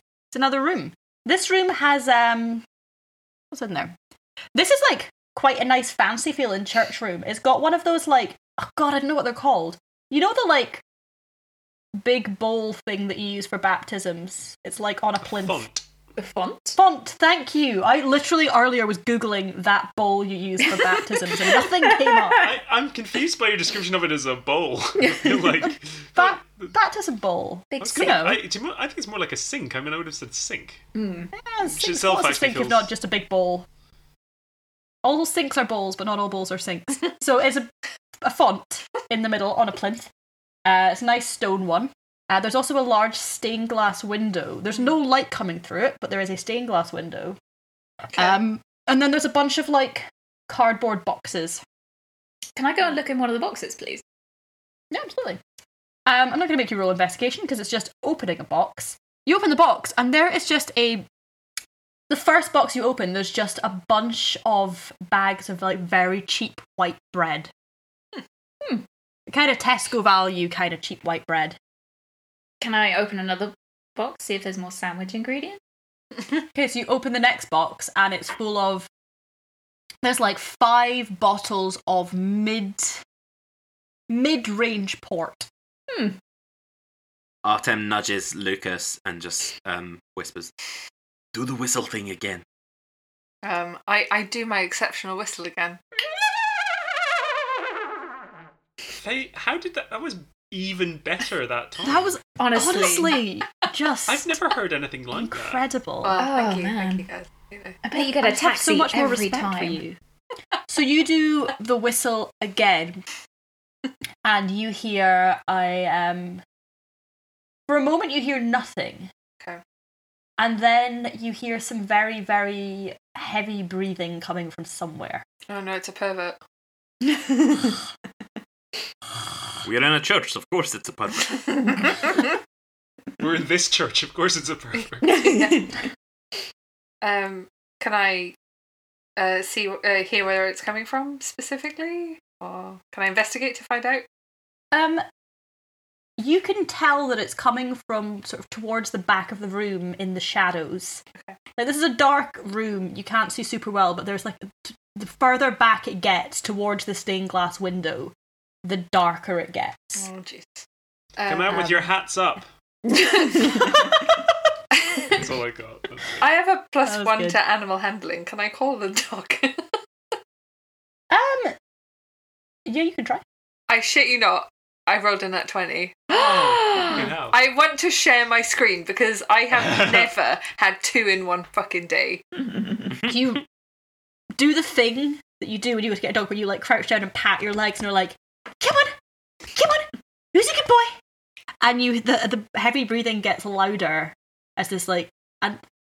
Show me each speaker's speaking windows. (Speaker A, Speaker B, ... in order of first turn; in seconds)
Speaker A: 0.3-2.6, 3.5-3.9, 4.5-10.8, 12.0-15.7, 16.8-22.5, 26.1-28.4, 31.3-33.6, 35.0-40.1, 40.6-47.4, 48.1-51.6, 54.9-55.4, 56.0-61.0, 62.1-67.5, 69.3-71.6, 76.5-78.9, 80.0-83.0, 84.1-85.5, 101.8-104.3, 105.1-106.2, 108.0-110.0, 110.7-113.0, 114.2-116.4, 117.7-119.1, 120.4-125.2, 144.7-145.0, 146.2-151.0, 151.6-160.1, 161.5-161.9, 166.8-167.4, 171.1-171.5, 172.7-173.2, 183.0-183.4, 184.3-188.9, 189.5-190.9, 191.6-195.6
Speaker B: 15.2-15.8, 22.4-26.7, 27.8-30.9, 31.6-32.9, 99.0-102.2, 104.1-105.6, 133.2-135.2, 161.2-162.5, 165.1-166.2, 176.1-177.4
Speaker C: 16.2-16.8, 21.6-22.5, 25.0-25.7, 27.7-28.2, 30.9-31.3, 52.5-54.0, 72.6-75.6, 85.9-86.2, 102.4-103.2, 106.2-107.0, 107.8-109.8, 135.0-135.8, 163.0-163.7, 176.2-177.1
Speaker D: 87.4-90.5, 91.3-92.4, 129.6-131.5
Speaker E: 93.4-95.8, 106.0-107.8, 125.5-126.4, 135.2-135.7, 137.0-138.3, 139.2-144.0, 159.9-161.7, 164.8-165.2, 166.2-169.6, 173.7-182.2